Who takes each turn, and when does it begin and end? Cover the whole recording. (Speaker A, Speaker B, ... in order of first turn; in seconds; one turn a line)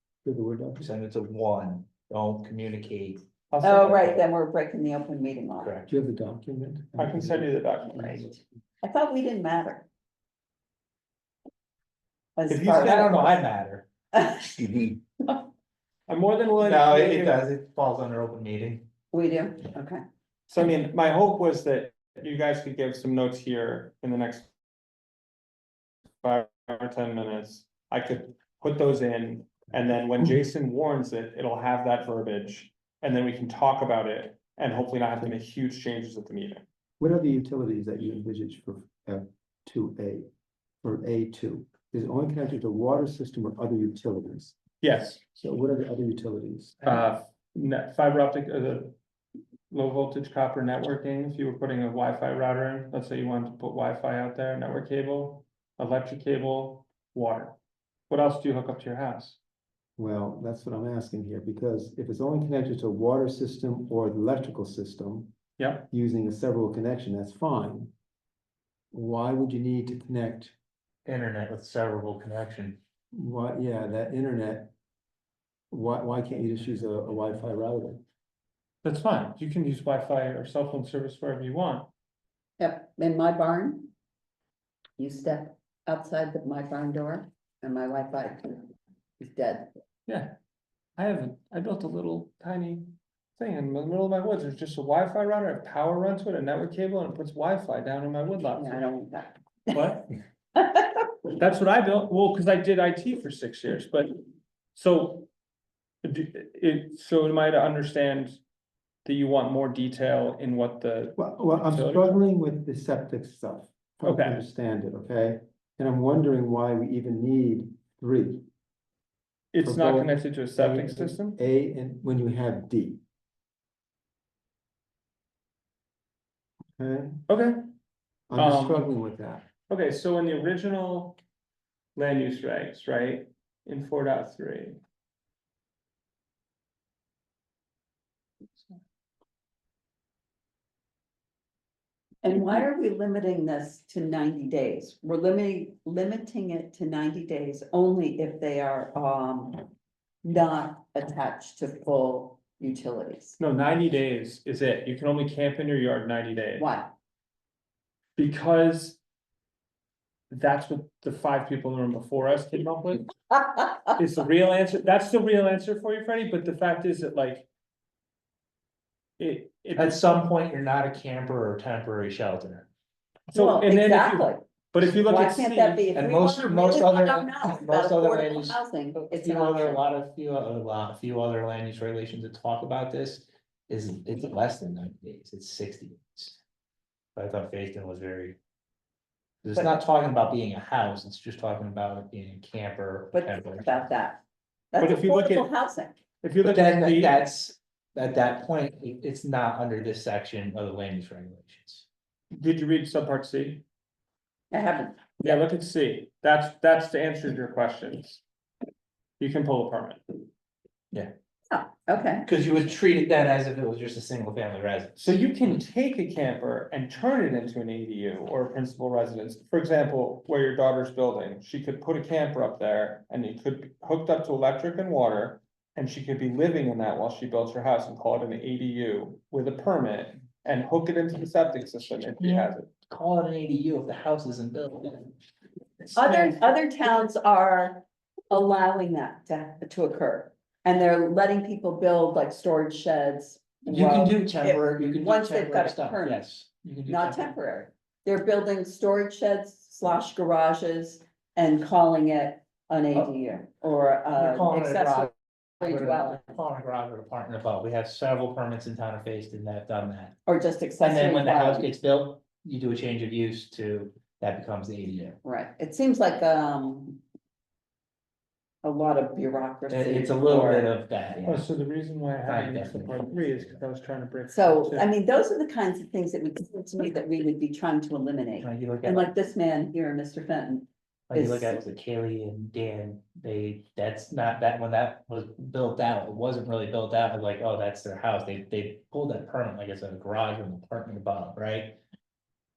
Speaker A: 0.2-0.9
Speaker B: 0.8-3.2
Speaker C: 3.5-4.2
Speaker D: 3.6-5.7
Speaker B: 5.6-5.9
Speaker A: 5.9-8.4
Speaker C: 7.0-8.3
Speaker D: 8.8-9.9
Speaker D: 12.3-13.4
Speaker C: 12.5-13.3
Speaker B: 12.5-13.8
Speaker D: 14.1-14.5
Speaker C: 16.1-17.4
Speaker B: 16.6-18.9
Speaker D: 19.1-20.0
Speaker C: 20.5-24.6
Speaker C: 26.2-36.6
Speaker A: 37.0-40.3
Speaker A: 40.8-44.5
Speaker C: 44.8-45.2
Speaker A: 45.4-47.1
Speaker C: 46.8-49.0
Speaker C: 49.7-57.6
Speaker C: 58.1-59.4
Speaker A: 60.0-65.3
Speaker C: 65.6-65.9
Speaker A: 65.9-67.9
Speaker A: 68.9-70.5
Speaker B: 71.0-72.8
Speaker A: 73.1-74.7
Speaker A: 75.7-78.0
Speaker C: 78.8-81.9
Speaker D: 82.6-83.9
Speaker D: 85.0-89.7
Speaker C: 90.1-90.3
Speaker C: 91.0-98.8
Speaker D: 98.5-99.9
Speaker C: 99.7-100.1
Speaker D: 100.5-101.0
Speaker C: 101.3-104.2
Speaker C: 104.7-105.3
Speaker C: 106.0-108.4
Speaker C: 109.0-112.2
Speaker A: 111.2-118.5
Speaker C: 114.0-114.4
Speaker C: 119.5-121.4
Speaker A: 119.6-123.0
Speaker A: 126.8-127.2
Speaker C: 127.3-127.7
Speaker A: 128.3-129.5
Speaker C: 128.4-128.9
Speaker C: 129.7-131.2
Speaker C: 132.0-134.8
Speaker D: 142.2-149.6
Speaker D: 150.2-153.4
Speaker C: 153.4-156.7
Speaker D: 156.6-156.9
Speaker C: 158.2-159.0
Speaker C: 160.3-163.1
Speaker D: 163.3-163.7
Speaker C: 163.9-167.5
Speaker C: 169.2-170.1
Speaker B: 169.8-172.7
Speaker C: 173.3-175.9
Speaker D: 173.3-174.4
Speaker D: 174.9-179.8
Speaker B: 175.9-186.4
Speaker B: 187.2-188.4
Speaker B: 189.4-193.9
Speaker D: 193.1-194.2
Speaker D: 194.7-196.0
Speaker C: 194.8-195.5
Speaker C: 196.2-197.2
Speaker B: 196.4-201.9
Speaker C: 202.3-203.6
Speaker D: 204.5-205.4
Speaker C: 205.2-208.2
Speaker C: 209.2-210.0
Speaker D: 211.5-212.2
Speaker B: 212.2-215.2
Speaker C: 215.0-232.7
Speaker B: 232.2-235.1
Speaker B: 235.8-236.4
Speaker D: 235.9-246.2
Speaker B: 243.7-247.3
Speaker D: 246.9-256.3
Speaker B: 254.1-260.1
Speaker D: 260.2-261.7
Speaker B: 260.8-265.2
Speaker D: 265.2-267.0
Speaker D: 268.6-270.7
Speaker B: 269.7-271.4
Speaker C: 271.2-274.9
Speaker B: 272.2-273.6
Speaker D: 274.3-281.6
Speaker B: 278.4-279.1
Speaker B: 281.1-291.8